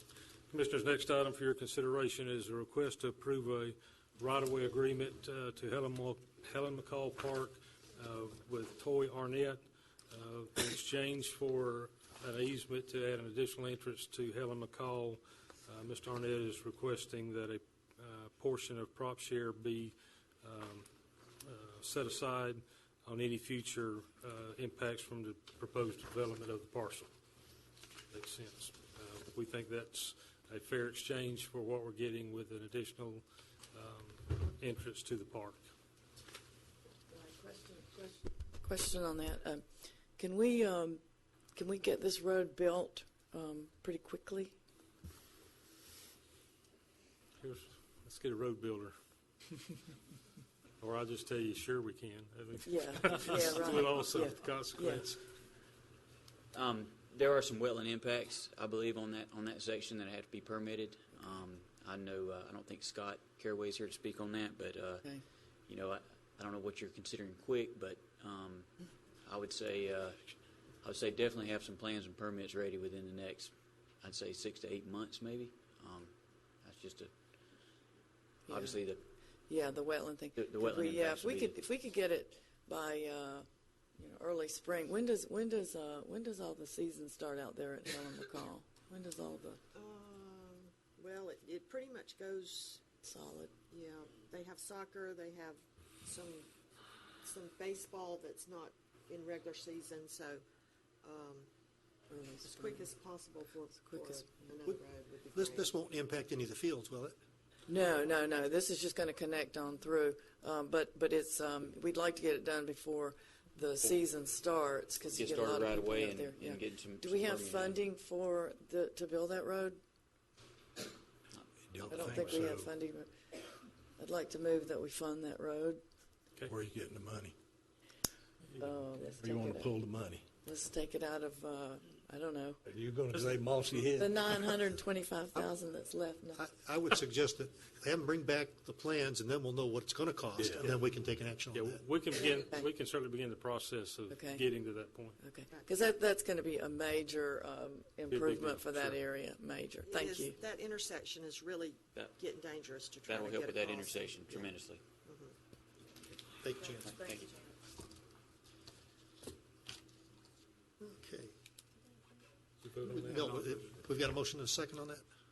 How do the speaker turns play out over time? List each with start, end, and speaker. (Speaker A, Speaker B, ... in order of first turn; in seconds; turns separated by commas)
Speaker A: 0.5-20.9, Speaker A: 21.4-27.1, Speaker A: 28.1-35.6, Speaker B: 37.1-39.6, Speaker B: 40.2-41.0, Speaker B: 41.5-44.5, Speaker A: 47.4-49.0, Speaker A: 50.8-55.2, Speaker B: 52.6-55.0, Speaker C: 56.5-65.1, Speaker C: 65.7-77.1, Speaker C: 78.5-79.0, Speaker B: 78.5-78.8, Speaker B: 79.5-89.6, Speaker C: 80.4-81.6, Speaker D: 89.8-92.8, Speaker B: 93.0-93.5, Speaker D: 93.7-96.5, Speaker D: 97.2-100.4, Speaker D: 101.0-101.5, Speaker B: 102.1-102.9, Speaker D: 102.4-105.8, Speaker B: 103.8-104.5, Speaker E: 105.3-107.2, Speaker B: 107.7-119.8, Speaker C: 115.1-117.8, Speaker F: 121.7-122.7, Speaker B: 121.9-123.1, Speaker B: 124.0-125.8, Speaker F: 126.5-127.4, Speaker B: 128.6-129.7, Speaker F: 129.1-130.2, Speaker B: 130.4-132.6, Speaker F: 132.7-134.5, Speaker B: 133.9-136.4, Speaker E: 136.3-141.8, Speaker F: 140.4-140.8, Speaker A: 141.5-145.2, Speaker B: 144.1-144.4, Speaker B: 145.2-150.4, Speaker A: 148.1-149.0, Speaker D: 149.8-155.3, Speaker C: 153.1-154.9, Speaker E: 156.4-156.9, Speaker C: 156.8-157.3, Speaker E: 160.8-161.3, Speaker A: 162.6-163.4, Speaker E: 162.9-165.0